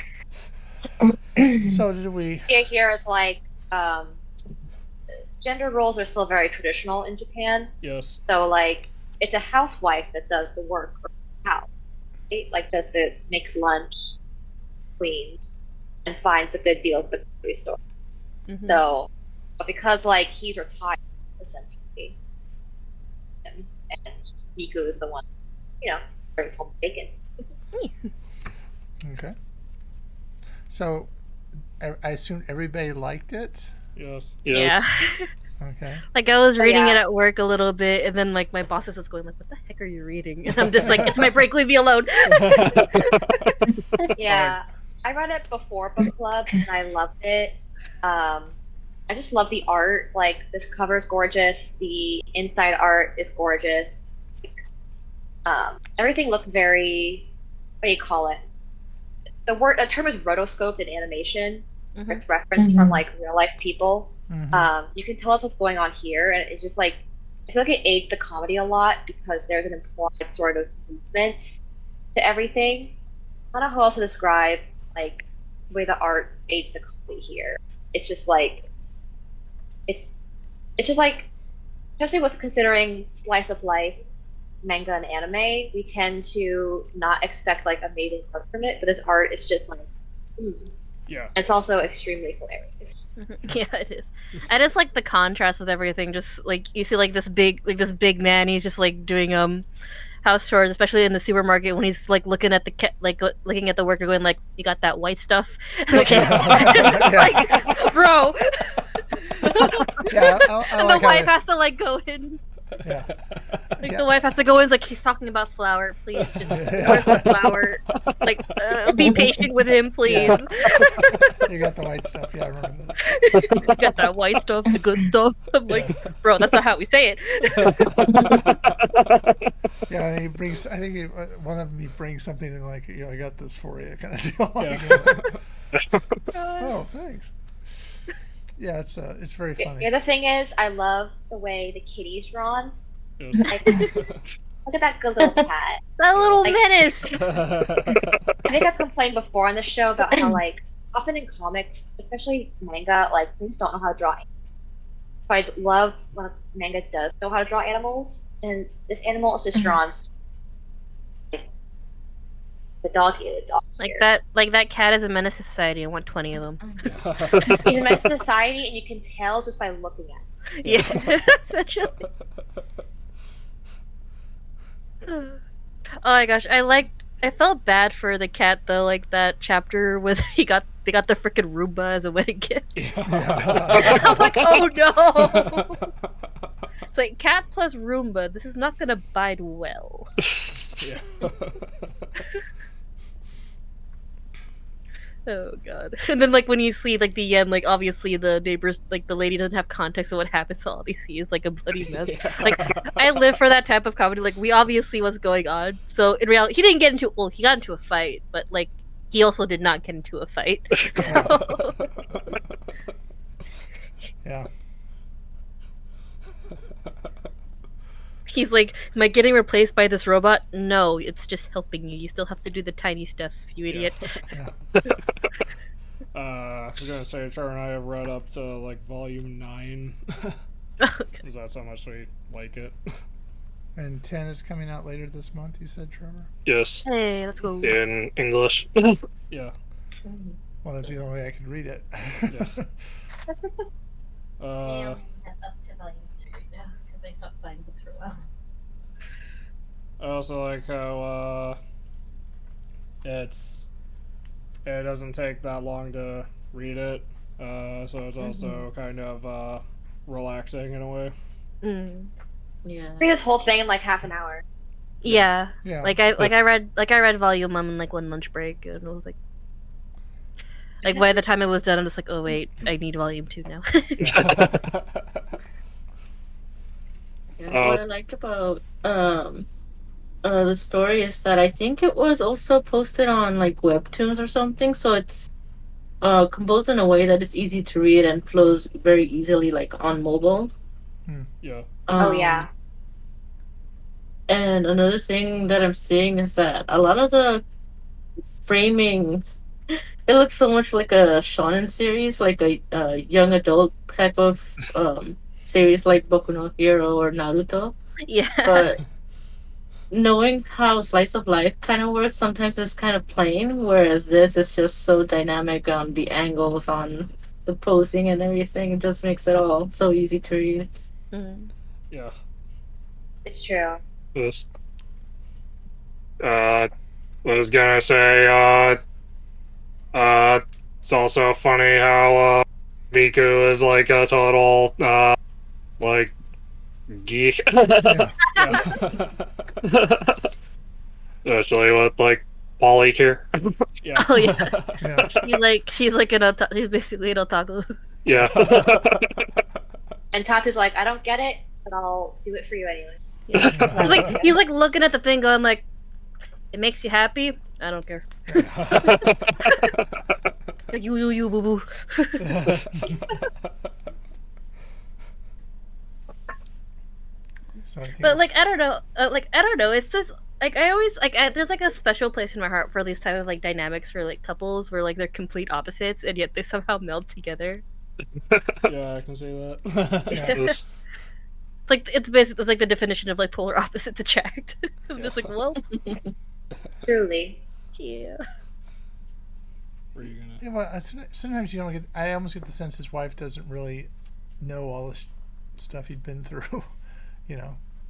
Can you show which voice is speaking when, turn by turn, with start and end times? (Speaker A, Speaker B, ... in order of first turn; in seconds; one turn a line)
Speaker A: 1.4-1.7
Speaker B: 1.5-2.6
Speaker C: 2.5-4.2
Speaker C: 5.4-11.7
Speaker D: 7.8-8.2
Speaker C: 12.3-14.2
Speaker C: 15.0-17.8
Speaker E: 18.5-18.8
Speaker C: 18.6-19.1
Speaker C: 19.6-22.2
Speaker C: 23.5-25.2
Speaker C: 25.8-27.1
Speaker B: 29.0-29.4
Speaker B: 30.7-31.1
Speaker B: 31.8-33.7
Speaker D: 34.0-34.4
Speaker F: 34.4-34.9
Speaker E: 34.5-35.3
Speaker B: 35.6-36.0
Speaker E: 36.1-43.6
Speaker C: 36.6-37.0
Speaker D: 42.3-43.3
Speaker C: 44.2-48.5
Speaker D: 44.3-44.5
Speaker C: 49.1-54.5
Speaker C: 55.5-57.3
Speaker C: 57.8-58.4
Speaker C: 59.5-71.6
Speaker E: 62.0-62.2
Speaker A: 62.6-63.0
Speaker B: 64.3-64.7
Speaker C: 72.1-73.0
Speaker C: 73.5-78.7
Speaker C: 80.8-81.3
Speaker C: 82.0-84.0
Speaker C: 84.6-89.8
Speaker C: 90.4-90.7
Speaker D: 91.1-91.3
Speaker C: 91.3-93.0
Speaker E: 93.2-99.7
Speaker E: 100.2-112.4
Speaker B: 106.0-107.5
Speaker D: 106.0-107.2
Speaker B: 110.1-111.3
Speaker B: 112.8-113.1
Speaker B: 113.8-114.1
Speaker E: 113.8-121.5
Speaker B: 116.5-117.6
Speaker B: 120.0-120.4
Speaker B: 121.4-123.7
Speaker E: 123.1-128.0
Speaker F: 123.6-123.9
Speaker B: 125.7-126.0
Speaker D: 127.6-128.6
Speaker F: 128.2-129.4
Speaker B: 129.9-135.4
Speaker D: 134.6-135.4
Speaker F: 135.8-136.2
Speaker B: 136.6-138.0
Speaker B: 138.6-139.9
Speaker C: 139.6-142.8
Speaker D: 143.2-144.3
Speaker C: 143.5-143.9
Speaker C: 144.7-145.8
Speaker E: 146.0-147.2
Speaker D: 146.2-146.5
Speaker D: 147.1-148.2
Speaker C: 148.5-154.2
Speaker C: 155.3-160.1
Speaker C: 162.8-164.1
Speaker E: 163.8-166.6
Speaker A: 166.6-167.0
Speaker D: 166.8-167.7
Speaker F: 167.3-167.7
Speaker C: 167.6-170.2
Speaker E: 170.6-172.0
Speaker D: 170.7-171.2
Speaker E: 175.1-175.4
Speaker E: 176.0-182.8
Speaker D: 182.8-184.2
Speaker B: 183.1-184.1
Speaker E: 183.7-185.8
Speaker D: 185.3-185.8
Speaker E: 186.9-190.1
Speaker F: 190.4-190.8
Speaker D: 190.8-191.9
Speaker E: 195.3-211.9
Speaker D: 201.9-203.0
Speaker B: 211.0-211.4
Speaker B: 214.2-214.5
Speaker E: 218.3-224.0
Speaker D: 223.7-224.1
Speaker D: 226.1-230.4
Speaker E: 230.8-231.2
Speaker D: 231.2-232.8
Speaker B: 233.8-236.3
Speaker F: 236.5-236.8
Speaker E: 236.8-237.8
Speaker F: 237.6-239.0
Speaker A: 240.1-240.3
Speaker B: 240.6-242.7
Speaker D: 244.4-245.0
Speaker E: 244.6-248.2
Speaker D: 250.0-251.6
Speaker D: 253.0-253.7
Speaker D: 254.7-261.1
Speaker A: 258.2-258.7
Speaker E: 261.6-262.1
Speaker A: 262.6-263.1
Speaker C: 263.0-264.4
Speaker E: 265.0-269.2
Speaker B: 265.6-266.0
Speaker E: 270.8-274.4
Speaker D: 274.0-275.2
Speaker F: 274.0-274.5
Speaker A: 277.4-279.5
Speaker F: 277.5-277.8
Speaker A: 280.2-285.3
Speaker A: 286.0-290.5
Speaker D: 291.4-291.7
Speaker A: 291.9-292.5
Speaker C: 292.0-292.5
Speaker A: 294.3-297.4
Speaker A: 298.4-307.7
Speaker E: 308.1-308.7
Speaker A: 308.4-308.8
Speaker A: 309.9-320.7
Speaker E: 321.1-321.5
Speaker C: 323.3-323.8
Speaker F: 324.1-324.4
Speaker F: 326.2-326.7
Speaker F: 327.2-328.8
Speaker F: 329.9-335.2
Speaker F: 335.8-336.1
Speaker F: 336.9-338.1
Speaker B: 337.8-338.2
Speaker D: 338.3-339.3
Speaker F: 339.6-340.3
Speaker F: 341.2-343.5
Speaker D: 343.8-345.1
Speaker E: 344.0-344.6
Speaker B: 344.8-345.1
Speaker E: 345.2-347.8
Speaker F: 348.1-349.2
Speaker D: 348.2-349.0
Speaker C: 350.1-353.0
Speaker E: 353.3-355.6
Speaker B: 353.5-354.2
Speaker C: 353.8-354.3
Speaker E: 356.5-358.9
Speaker B: 358.3-358.5
Speaker D: 358.4-359.4
Speaker F: 358.8-359.7
Speaker E: 360.7-362.4
Speaker D: 362.2-362.9
Speaker B: 367.6-368.3
Speaker E: 368.0-377.6
Speaker F: 378.3-378.7
Speaker D: 378.7-380.4
Speaker B: 380.1-380.4
Speaker E: 380.1-380.6
Speaker F: 380.3-380.6
Speaker E: 381.7-385.7
Speaker C: 386.8-387.4
Speaker E: 387.8-388.2
Speaker D: 390.0-390.4
Speaker B: 390.0-396.7
Speaker B: 397.3-397.6